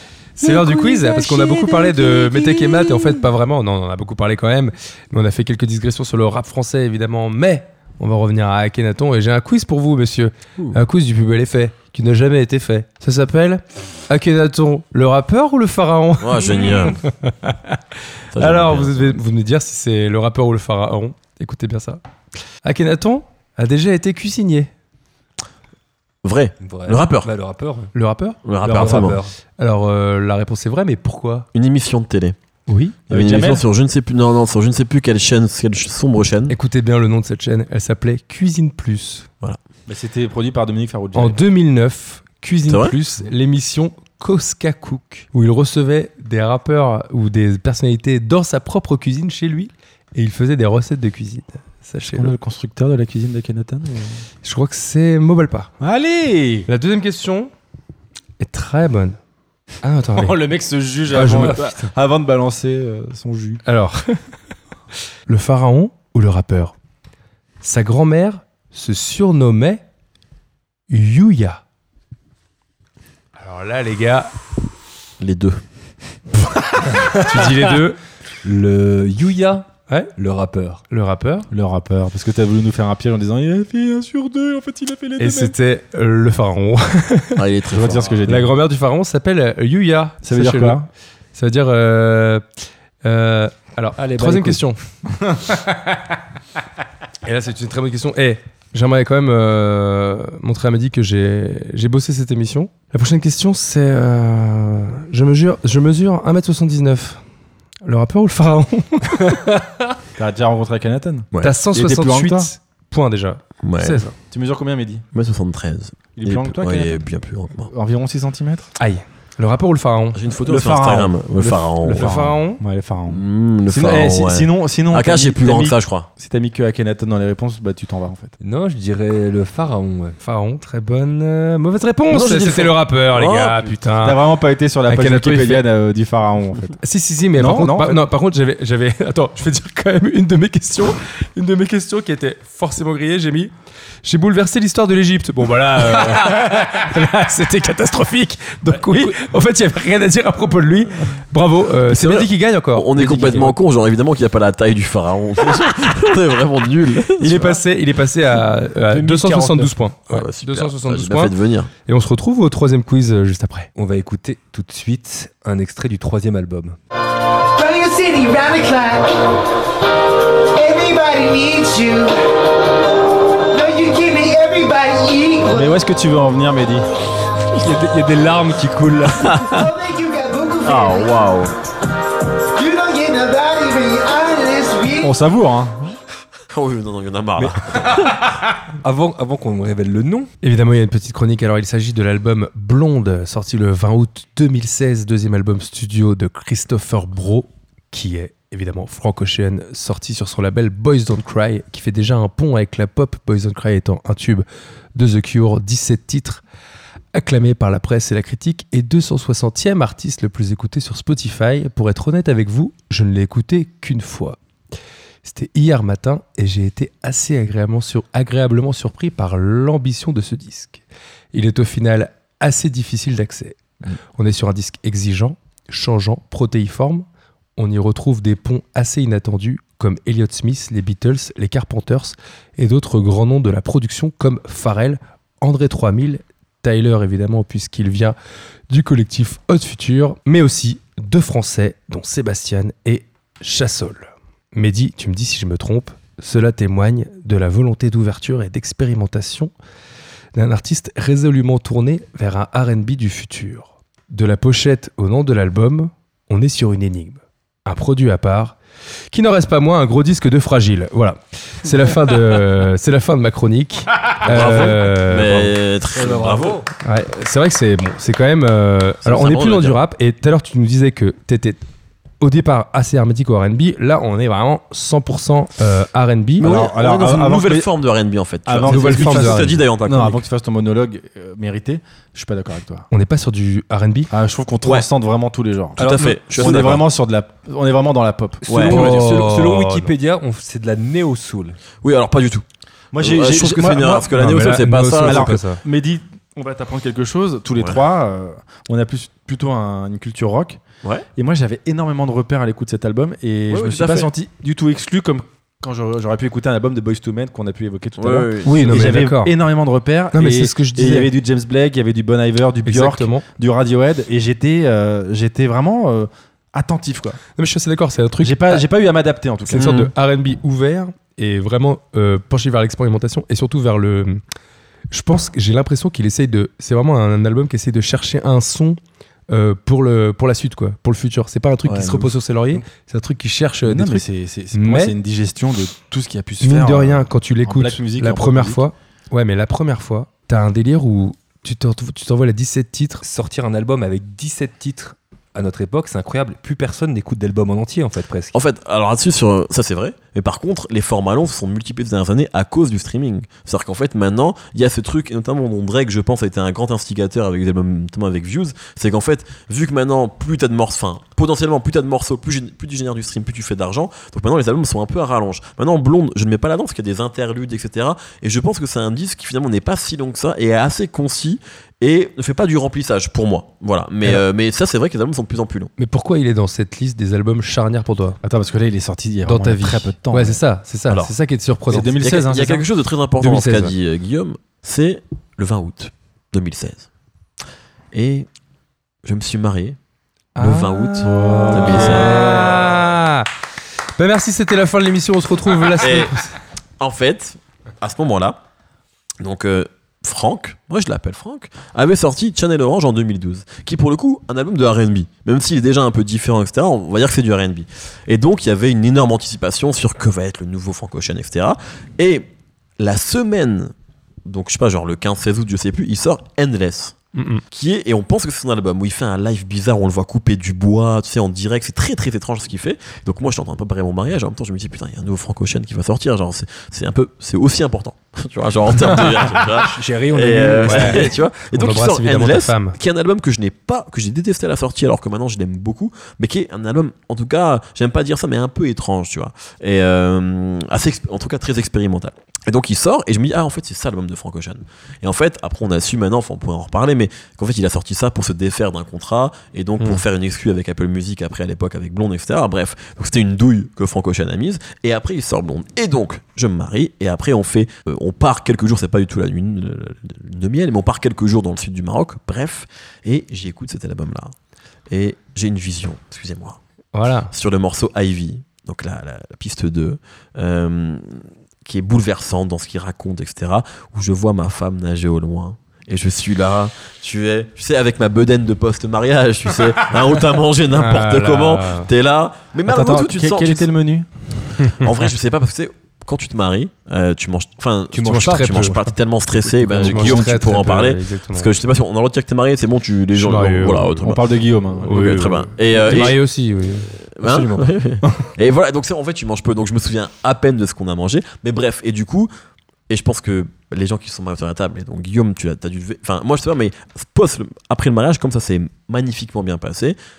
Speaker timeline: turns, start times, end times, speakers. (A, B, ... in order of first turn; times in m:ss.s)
0:00.4-0:17.8 A
0:00.4-0:03.2 B
0:16.2-0:17.0 C
0:18.3-0:19.2 C
0:18.3-0:22.0 A
0:22.6-0:24.7 A
0:26.2-0:27.3 C
0:26.6-0:27.9 B
0:27.9-0:31.5 A
0:28.4-0:29.2 C
0:28.6-0:29.3 B
0:31.5-0:32.4 C
0:32.7-0:33.0 A
0:33.1-0:33.6 D
0:33.1-0:36.6 C
0:36.5-0:39.3 A
0:39.9-0:41.4 D
0:41.1-0:52.3 A
0:42.7-0:42.9 C
0:52.1-0:54.2 D
0:54.4-0:55.7 A
0:55.8-0:56.7 D
0:56.7-0:57.5 A
0:58.4-0:59.2 A
0:59.8-1:00.4 A
1:00.2-1:03.6 D
1:01.1-1:01.9 A
1:03.6-1:04.2 A
1:05.3-1:06.7 A
1:07.6-1:09.8 A
1:10.9-1:11.6 A
1:13.4-1:14.3 A
1:15.2-1:15.6 C
1:16.4-1:18.0 A
1:16.9-1:17.3 B
1:18.4-1:20.8 B
1:20.9-1:21.5 A
1:21.5-1:25.5 D
1:25.2-1:27.4 A
1:27.4-1:28.3 C
1:27.7-1:28.5 D
1:28.2-1:30.8 A
1:30.2-1:30.9 D
1:31.3-1:32.4 A
1:33.0-1:34.8 A
1:34.0-1:34.6 B
1:37.2-1:47.2 A
1:47.8-1:49.7 A
1:50.2-1:52.5 D
1:51.4-1:54.1 A
1:53.6-1:54.0 C
1:54.3-1:55.0 D
1:55.1-1:57.7 C
1:56.2-1:57.0 D
1:57.7-1:58.7 D
1:58.8-2:00.2 A
2:00.1-2:02.4 C
2:00.4-2:01.6 D
2:01.8-2:02.6 A
2:02.6-2:08.3 D
2:03.1-2:06.1 C
2:08.4-2:10.2 B
2:10.2-2:14.3 A
2:12.1-2:13.7 C
2:14.0-2:16.8 D
2:14.9-2:15.7 A
2:16.8-2:23.5 A
2:17.4-2:18.0 D
2:24.0-2:33.5 A
2:28.7-2:29.2 B
2:31.9-2:37.6 C
2:37.1-2:41.3 A
2:38.9-2:39.8 B
2:40.1-2:41.7 C
2:41.8-2:43.7 A
2:43.8-2:46.8 B
2:47.5-2:49.1 E
2:50.6-2:52.2 E
2:53.5-2:55.7 E
2:55.5-2:56.9 D
2:57.5-2:59.4 B
2:59.2-2:59.7 C
2:59.5-3:01.2 E
3:00.6-3:01.5 C
3:02.5-3:05.1 E
3:05.0-3:06.0 D
3:06.5-3:08.3 C
3:07.4-3:07.9 B
3:08.8-3:10.3 B
3:10.4-3:26.4 A
3:27.1-3:34.4 A
3:35.2-3:47.0 A
3:47.6-3:58.2 A
3:58.7-4:09.5 A
4:10.3-4:18.6 A
4:19.1-4:25.5 A
4:24.2-4:24.7 B
4:24.3-4:26.6 C
4:25.9-4:26.7 B
4:26.8-4:31.6 A
4:29.0-4:29.8 C
4:32.2-4:36.5 A
4:36.4-4:40.2 C
4:36.4-4:37.7 D
4:38.4-4:42.9 D
4:38.6-4:39.6 A
4:42.9-4:44.1 A
4:44.1-4:48.4 D
4:44.6-4:44.9 C
4:45.8-4:46.8 C
4:45.8-4:46.7 B
4:48.4-4:51.6 B
4:48.5-4:49.0 C
4:48.6-4:49.9 A
4:51.8-4:52.4 C
4:52.9-4:54.1 D
4:53.0-4:55.4 C
4:54.1-4:55.6 A
4:55.0-5:00.6 D
4:57.6-4:57.8 C
5:01.2-5:17.2 D
5:03.5-5:04.1 C
5:08.0-5:08.9 C
5:08.4-5:09.3 A
5:10.1-5:11.1 A
5:12.6-5:13.2 A
5:17.4-5:18.6 A
5:18.2-5:19.7 D
5:19.5-5:24.2 A
5:19.5-5:19.9 C
5:24.9-5:28.8 A
5:29.3-5:34.9 A
5:31.6-5:32.1 C
5:33.6-5:38.6 D
5:36.4-5:43.0 A
5:43.0-5:48.4 B
5:48.3-6:15.7 C
6:15.8-6:18.2 A
6:18.2-6:20.4 D
6:19.2-6:22.0 A
6:20.9-6:21.1 C
6:21.7-6:22.6 D
6:21.8-6:26.9 C
6:23.2-6:23.7 A
6:27.9-6:28.3 C
6:29.0-6:29.8 C
6:30.4-6:33.3 A
6:30.4-6:32.5 C
6:31.0-6:32.7 D
6:34.0-6:36.3 A
6:35.8-6:36.1 C
6:36.8-6:38.4 C
6:39.2-6:52.3 C
6:52.8-6:53.7 C
6:54.2-6:57.0 C
6:57.1-6:57.4 A
6:57.5-7:44.3 C
7:09.4-7:11.1 B
7:10.6-7:12.8 A
7:44.9-7:46.6 C
7:46.9-7:47.3 A
7:47.3-8:03.7 C
8:00.7-8:01.9 A
8:02.7-8:04.1 D
8:04.8-8:14.2 C
8:07.9-8:08.9 B
8:08.1-8:08.8 A
8:09.4-8:10.3 B
8:09.7-8:11.5 A
8:13.1-8:13.9 A
8:14.0-8:15.3 D
8:14.8-8:16.2 C
8:14.8-8:16.9 A
8:17.1-8:22.3 C
8:17.2-8:17.7 B
8:22.9-8:30.0 C